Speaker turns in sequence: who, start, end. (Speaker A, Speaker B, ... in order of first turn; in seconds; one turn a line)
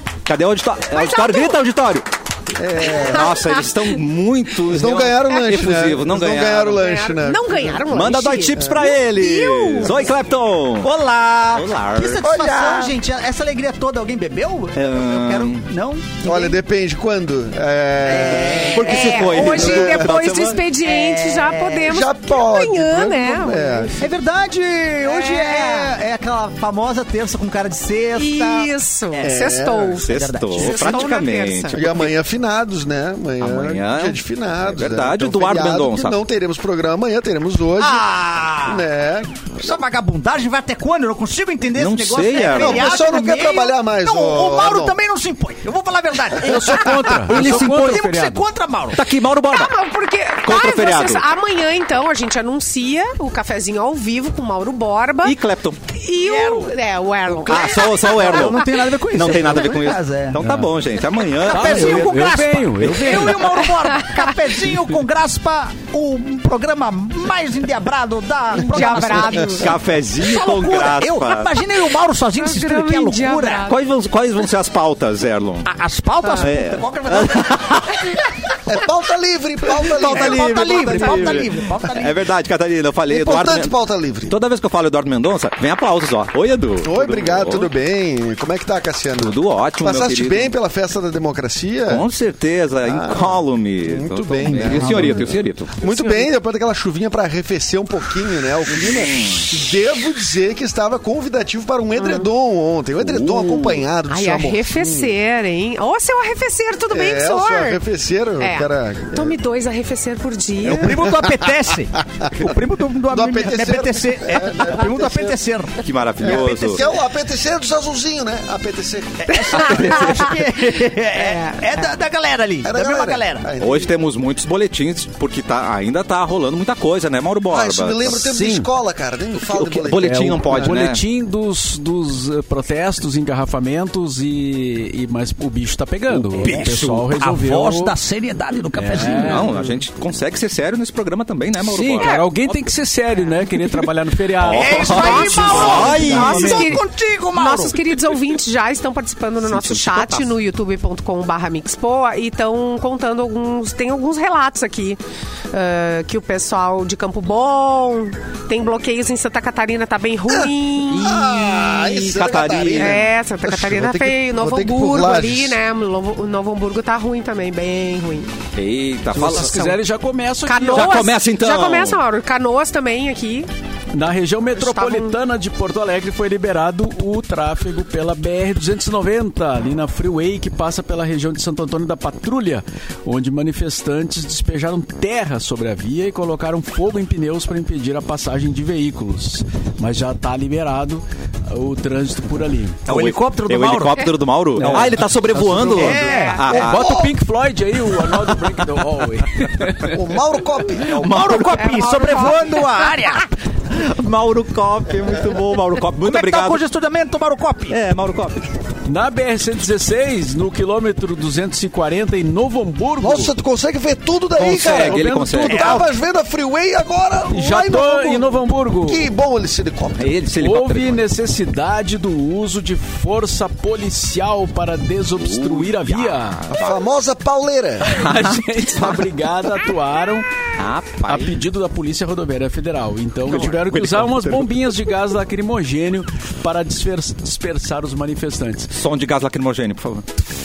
Speaker A: 0.3-2.0
Speaker B: 0.9-1.6
Speaker C: 2.5-3.4
Speaker A: 2.8-6.8
Speaker B: 2.9-3.5
Speaker C: 4.7-7.9
Speaker B: 6.7-10.1
Speaker A: 7.9-10.9
Speaker C: 8.6-8.9
Speaker D: 10.8-16.4
Speaker A: 11.5-12.2
Speaker C: 12.2-13.0
Speaker A: 14.8-15.6
Speaker C: 16.2-20.1
Speaker D: 18.1-19.9
Speaker A: 18.7-20.6
Speaker B: 18.8-24.0
Speaker D: 20.8-21.9
Speaker C: 21.8-24.0
Speaker D: 24.0-28.7
Speaker B: 25.0-25.9
Speaker B: 28.2-31.8
Speaker C: 29.2-30.1
Speaker A: 30.0-32.1
Speaker D: 30.1-31.1
Speaker C: 31.7-38.0
Speaker A: 33.4-36.2
Speaker D: 37.8-38.9
Speaker C: 38.6-39.8
Speaker D: 39.6-49.0
Speaker A: 41.8-43.0
Speaker C: 42.5-45.0
Speaker E: 46.4-48.5
Speaker A: 47.4-47.7
Speaker A: 48.9-49.8
Speaker B: 49.5-55.4
Speaker A: 50.4-51.2
Speaker A: 55.2-55.8
Speaker B: 55.9-58.7
Speaker D: 56.2-56.8
Speaker D: 57.3-60.4
Speaker A: 57.5-63.7
Speaker E: 60.4-60.7
Speaker E: 61.5-63.5
Speaker D: 61.5-73.7
Speaker B: 63.8-64.5
Speaker B: 68.6-69.7
Speaker A: 68.9-71.5
Speaker B: 72.4-73.8
Speaker A: 73.7-75.7
Speaker D: 75.6-78.0
Speaker A: 76.4-78.1
Speaker C: 78.7-80.9
Speaker A: 79.7-83.7
Speaker D: 80.0-82.2
Speaker B: 80.8-81.5
Speaker C: 83.1-84.3
Speaker A: 84.3-87.7
Speaker C: 86.8-92.0
Speaker A: 89.2-90.5
Speaker A: 91.9-95.8
Speaker C: 92.8-105.2
Speaker D: 94.5-95.3
Speaker B: 95.8-96.3
Speaker A: 98.8-99.5
Speaker B: 102.0-102.3
Speaker A: 103.0-103.8
Speaker B: 104.1-107.8
Speaker C: 106.9-109.4
Speaker B: 108.4-111.0
Speaker C: 110.7-112.5
Speaker D: 110.7-115.8
Speaker C: 113.1-115.4
Speaker A: 115.8-116.8
Speaker C: 116.2-119.8
Speaker D: 119.2-123.5
Speaker A: 119.5-120.3
Speaker B: 121.1-121.8
Speaker C: 122.6-124.0
Speaker A: 123.6-128.2
Speaker C: 127.5-130.7
Speaker E: 128.2-128.7
Speaker A: 129.4-131.0
Speaker E: 130.0-137.9
Speaker A: 136.1-137.1
Speaker D: 136.4-139.5
Speaker E: 138.8-139.6
Speaker A: 139.0-142.7
Speaker E: 141.6-146.8
Speaker A: 144.4-146.7
Speaker D: 144.4-147.8
Speaker B: 144.9-155.0
Speaker A: 149.4-150.3
Speaker B: 155.5-161.2
Speaker C: 160.3-165.6
Speaker A: 160.9-163.1
Speaker B: 162.8-168.3
Speaker A: 168.6-169.8
Speaker E: 169.1-171.0
Speaker B: 170.4-173.5
Speaker A: 170.7-172.0
Speaker E: 173.9-192.8
Speaker B: 174.6-175.2
Speaker D: 192.9-196.7
Speaker A: 192.9-197.0
Speaker E: 194.6-200.1
Speaker B: 195.8-196.6
Speaker C: 196.6-197.1
Speaker C: 199.9-201.5
Speaker A: 200.8-201.7
Speaker D: 200.9-203.3
Speaker B: 201.2-203.0
Speaker A: 203.7-206.6
Speaker D: 206.0-207.8
Speaker A: 207.7-208.5
Speaker E: 208.9-213.3
Speaker C: 213.0-220.2
Speaker A: 214.4-215.8
Speaker E: 214.6-215.8
Speaker D: 215.4-215.8
Speaker E: 217.3-219.0
Speaker A: 220.0-221.0
Speaker E: 220.4-226.4
Speaker A: 225.2-226.8
Speaker C: 226.5-228.0
Speaker E: 227.8-230.3
Speaker A: 227.9-229.1
Speaker A: 230.6-231.4
Speaker E: 231.1-238.7
Speaker A: 233.3-234.8
Speaker A: 238.7-240.1